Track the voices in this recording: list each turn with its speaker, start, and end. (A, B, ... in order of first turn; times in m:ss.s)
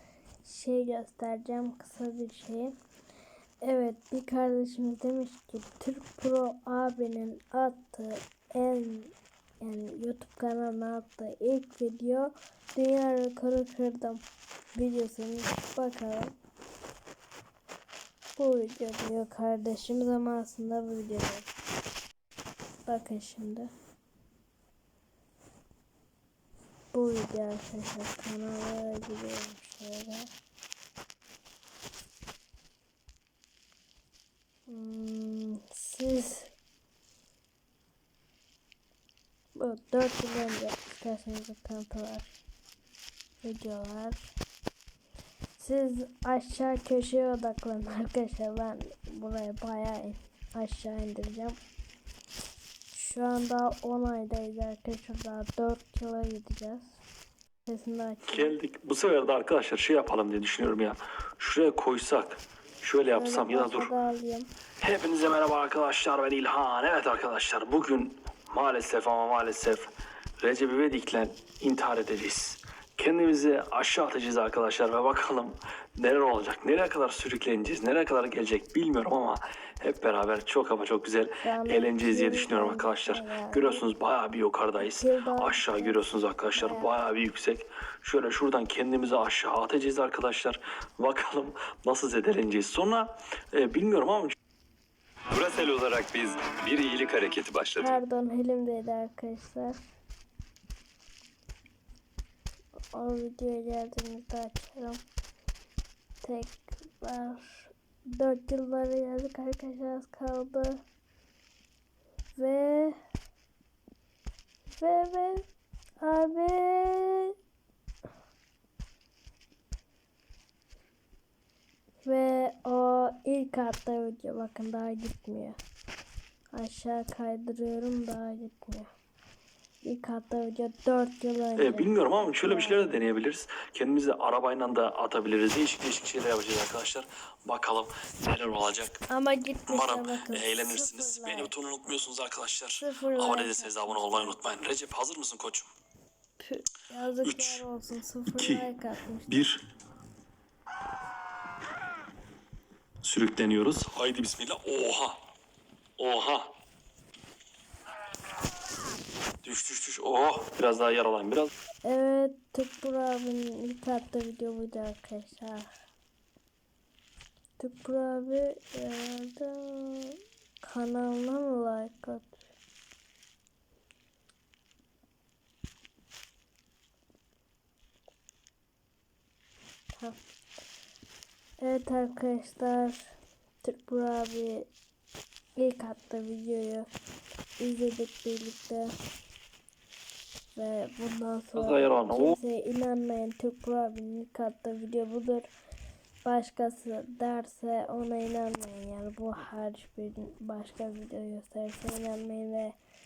0:00.4-0:02.7 A
0:03.6-0:14.2 A
0:14.7-0:16.3 A
0:18.4-0:21.5 A
0:22.8-0:23.7 A
0:26.9-0:30.3 A
0:34.7-0:36.5 A
0:39.6-0:42.3 A
0:43.4-0:44.3 A
0:45.6-0:51.6 A
0:52.9-0:57.0 A
0:57.7-0:58.6 A
0:58.3-1:03.9 B
1:03.1-1:04.5 A
1:04.8-1:09.9 B
1:10.4-1:34.4 B
1:21.4-1:23.9 A
1:24.8-1:27.0 A
1:35.3-1:38.0 C
1:37.8-1:39.8 A
1:42.9-1:45.0 A
1:46.2-1:50.8 A
1:52.4-1:53.0 A
1:54.8-1:55.4 A
1:56.0-1:57.3 A
2:02.0-2:05.6 A
2:06.6-2:08.9 A
2:09.8-2:13.0 A
2:11.6-2:19.0 B
2:19.1-2:21.5 A
2:19.7-2:25.7 B
2:22.8-2:24.5 A
2:26.4-2:29.4 A
2:27.2-2:27.6 B
2:28.4-2:28.6 B
2:29.3-2:29.6 B
2:33.0-2:35.2 B
2:36.0-2:36.5 B
2:39.4-2:41.5 B
2:41.9-2:45.7 A
2:47.6-2:52.4 A
3:01.6-3:03.0 A
3:03.6-3:04.7 A
3:05.6-3:06.9 A
3:07.6-3:08.9 A
3:10.5-3:15.5 A
3:11.6-3:12.4 B
3:16.2-3:22.8 A